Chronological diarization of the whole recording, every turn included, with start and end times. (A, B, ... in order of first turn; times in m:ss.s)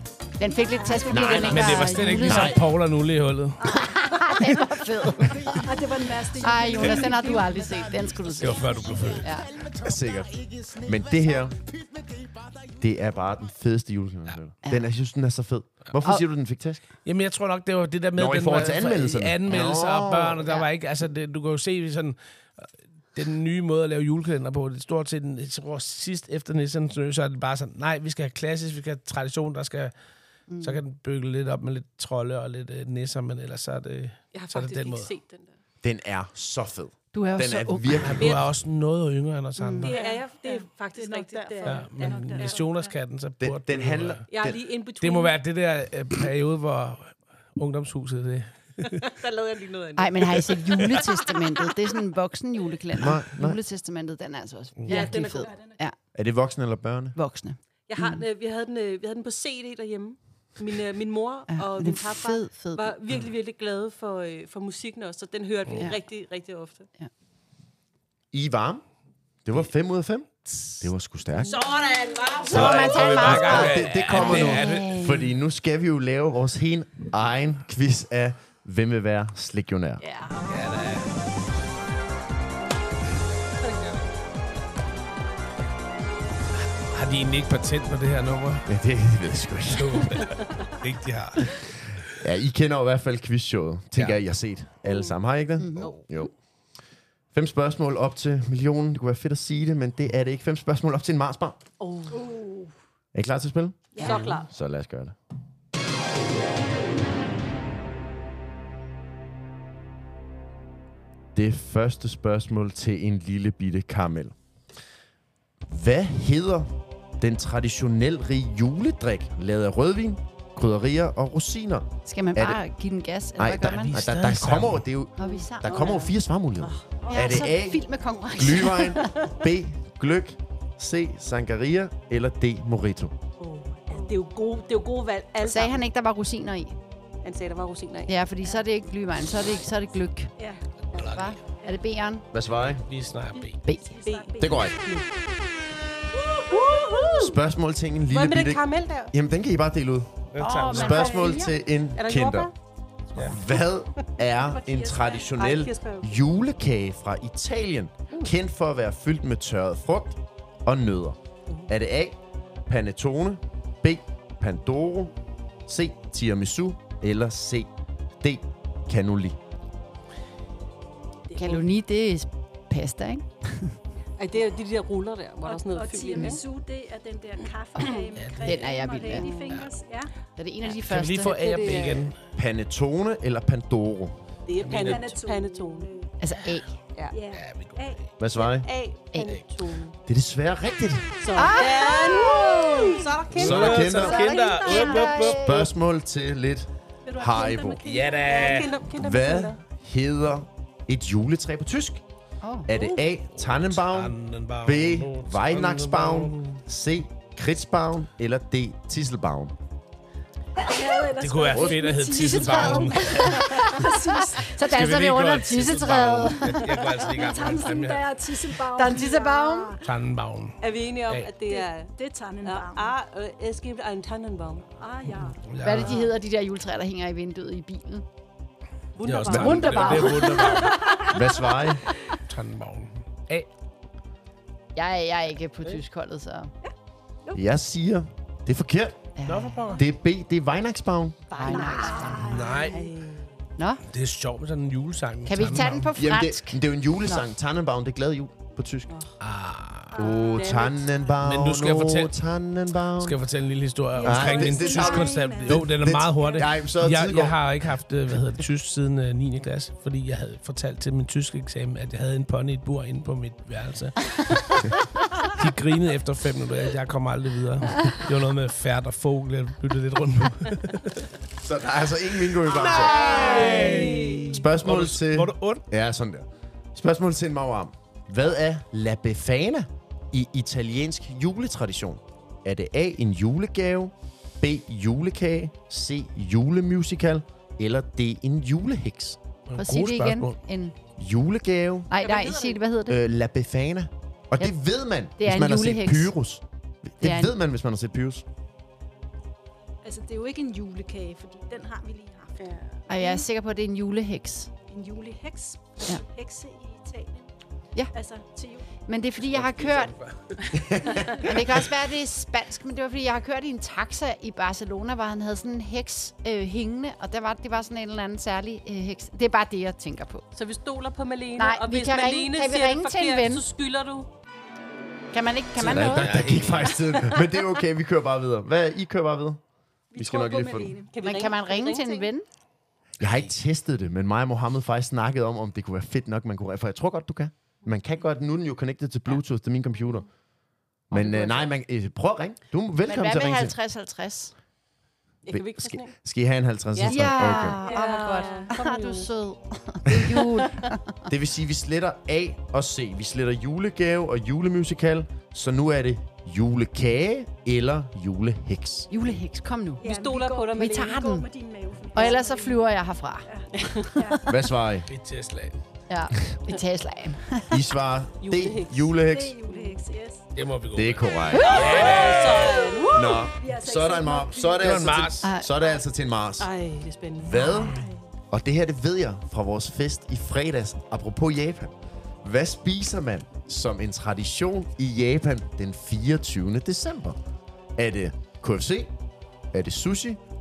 0:00.4-0:02.6 A
0:00.7-0:01.8 B
0:01.1-0:02.6 C
0:01.3-0:03.8 D
0:03.6-0:05.7 A
0:05.4-0:07.8 B
0:06.4-0:09.5 A
0:08.3-0:09.7 D
0:09.7-0:11.6 C
0:12.6-0:16.8 C
0:17.0-0:29.9 D
0:18.2-0:20.5 C
0:30.5-0:30.8 A
0:30.6-0:35.1 D
0:34.3-0:35.5 E
0:35.8-0:38.4 C
0:37.1-0:38.2 A
0:38.0-0:39.9 D
0:38.2-0:38.5 E
0:39.6-0:39.9 A
0:39.8-0:42.6 E
0:39.8-0:42.9 B
0:41.6-0:44.2 D
0:43.4-0:44.6 C
0:44.3-0:45.4 E
0:45.0-0:49.1 D
0:48.9-0:51.7 E
0:50.0-0:56.0 A
0:53.0-0:53.6 C
0:54.8-0:55.1 D
0:54.9-0:55.5 E
0:54.9-0:55.8 B
0:56.1-0:57.2 C
0:57.1-0:58.2 A
0:57.9-1:06.9 E
1:01.5-1:02.8 A
1:08.3-1:08.8 C
1:09.4-1:11.6 C
1:11.4-1:13.6 E
1:12.5-1:14.9 D
1:12.5-1:20.0 C
1:12.6-1:15.3 A
1:20.0-1:20.9 E
1:20.4-1:21.2 D
1:26.8-1:28.6 D
1:28.7-1:30.2 C
1:29.7-1:31.7 D
1:32.1-1:36.3 C
1:34.8-1:35.2 E
1:35.6-1:35.9 A
1:35.8-1:36.2 E
1:37.3-1:41.6 C
1:41.8-1:42.6 E
1:42.1-1:42.7 B
1:43.1-1:45.2 C
1:43.9-1:44.4 B
1:43.9-1:44.5 E
1:51.3-1:54.3 C
1:55.6-2:02.6 C
2:02.0-2:04.0 A
2:03.4-2:13.1 C
2:03.7-2:04.8 D
2:05.2-2:05.9 A
2:05.2-2:07.1 E
2:07.1-2:09.2 A
2:13.4-2:15.8 E
2:15.4-2:16.7 A
2:17.2-2:18.1 E
2:18.1-2:20.3 A
2:20.4-2:20.6 B
2:20.9-2:21.4 D
2:21.1-2:22.2 A
2:22.3-2:22.8 C
2:22.6-2:23.6 D
2:23.4-2:24.7 B
2:23.6-2:23.9 A
2:24.0-2:25.1 E
2:24.4-2:24.8 C
2:26.1-2:27.4 E
2:26.5-2:27.1 B
2:27.1-2:32.5 C
2:28.1-2:29.1 E
2:30.3-2:31.2 D
2:30.4-2:31.5 A
2:31.1-2:31.4 B
2:32.0-2:32.5 E
2:33.1-2:36.2 E
2:33.2-2:45.1 C
2:45.6-2:49.4 C
2:51.3-2:51.7 E
2:51.4-2:53.8 A
2:54.2-2:56.4 E
2:55.4-3:00.1 B
2:58.1-2:58.7 D
2:58.4-2:59.3 A
2:59.1-2:59.6 E
2:59.5-2:59.8 D
3:00.4-3:01.4 A
3:00.8-3:02.2 D
3:01.2-3:02.1 E
3:02.4-3:04.2 C
3:04.4-3:05.9 E
3:04.6-3:05.1 D
3:04.7-3:06.1 B
3:06.2-3:06.7 A
3:07.1-3:08.0 B
3:07.3-3:08.0 D
3:08.2-3:08.7 C
3:08.3-3:10.0 E
3:10.0-3:11.2 C
3:11.2-3:14.0 E
3:11.4-3:13.0 A
3:11.8-3:12.9 B
3:13.3-3:15.6 D
3:13.3-3:14.3 C
3:13.8-3:15.4 A
3:13.8-3:15.4 B
3:15.3-3:17.9 C
3:17.0-3:18.6 B
3:17.8-3:18.8 D
3:18.2-3:19.6 E
3:18.9-3:22.0 C
3:22.4-3:22.7 A
3:22.7-3:29.5 C
3:23.4-3:26.6 D
3:30.6-3:34.7 B
3:31.1-3:33.6 D
3:32.4-3:37.0 A
3:34.7-3:38.6 D
3:36.6-3:39.9 B
3:38.8-3:39.8 A
3:39.8-3:41.3 D
3:40.6-3:44.7 E
3:41.4-3:42.9 B
3:44.8-3:45.4 B
3:45.2-3:46.1 D
3:45.6-3:48.0 A
3:49.0-3:50.7 E
3:49.0-3:51.0 D
3:49.3-3:49.6 C
3:49.3-3:50.5 A
3:49.6-3:51.2 B
3:51.1-3:51.8 C
3:52.3-3:53.5 D
3:54.7-3:56.5 A
3:57.3-3:59.1 C
3:59.2-3:59.7 A
3:59.2-3:59.8 D
3:59.7-4:01.3 C
4:01.3-4:02.4 A
4:01.3-4:03.3 E
4:01.4-4:02.7 B
4:02.2-4:02.9 D
4:03.6-4:03.8 A
4:03.8-4:05.9 D
4:05.2-4:07.2 A
4:05.9-4:08.9 C
4:08.9-4:09.2 E
4:09.2-4:10.1 D
4:09.9-4:11.1 B
4:09.9-4:13.2 C
4:10.1-4:10.8 E
4:11.2-4:12.1 D
4:13.0-4:31.1 D
4:13.9-4:15.7 B
4:14.0-4:17.4 C
4:31.4-4:33.5 C
4:32.4-4:35.6 D
4:32.5-4:34.4 E
4:34.2-4:49.2 C
4:49.5-4:50.4 D
4:49.6-4:50.7 A
4:51.0-4:51.9 C
4:51.9-4:53.0 A
4:52.0-4:52.6 E
4:52.9-4:58.2 C
4:55.2-4:56.1 A
4:57.0-4:57.3 A
4:59.8-5:03.2 B
5:02.4-5:02.6 E
5:02.9-5:04.5 A
5:04.7-5:07.3 B
5:07.9-5:08.7 B
5:08.9-5:09.9 A
5:09.2-5:10.5 D
5:10.5-5:11.6 C
5:10.9-5:11.2 B
5:11.1-5:20.2 A
5:20.3-5:24.1 E
5:21.4-5:23.4 A
5:25.1-5:26.4 A
5:25.6-5:26.9 D
5:25.6-5:29.4 C
5:26.8-5:27.4 E
5:29.9-5:30.9 B
5:29.9-5:30.8 C
5:30.9-5:32.1 E
5:31.0-5:32.2 A
5:33.0-5:40.1 C
5:40.9-5:43.5 C
5:40.9-5:41.3 E
5:41.0-5:41.3 A
5:42.8-5:44.3 A
5:45.2-5:45.9 E
5:45.3-5:47.6 C
5:46.7-5:49.1 E
5:46.8-5:51.0 A
5:47.6-5:48.5 B
5:51.1-5:58.9 C
5:58.9-5:59.8 A
5:59.8-6:02.7 B
5:59.8-6:01.1 E
6:00.5-6:01.3 A
6:01.9-6:04.3 A
6:03.2-6:04.2 B
6:03.5-6:03.9 E
6:04.2-6:04.9 C
6:04.9-6:05.6 D
6:05.9-6:07.5 A
6:07.5-6:09.4 C
6:08.2-6:08.9 E
6:09.0-6:10.3 B
6:09.5-6:09.8 E
6:10.3-6:12.7 D
6:10.7-6:11.6 C
6:11.3-6:11.7 A
6:11.4-6:15.0 B
6:11.4-6:13.3 E
6:12.9-6:16.5 C
6:14.6-6:15.3 D
6:15.2-6:15.5 A
6:16.4-6:17.7 E
6:17.2-6:27.2 C
6:17.3-6:18.0 B
6:27.8-6:28.9 C
6:29.5-6:30.2 C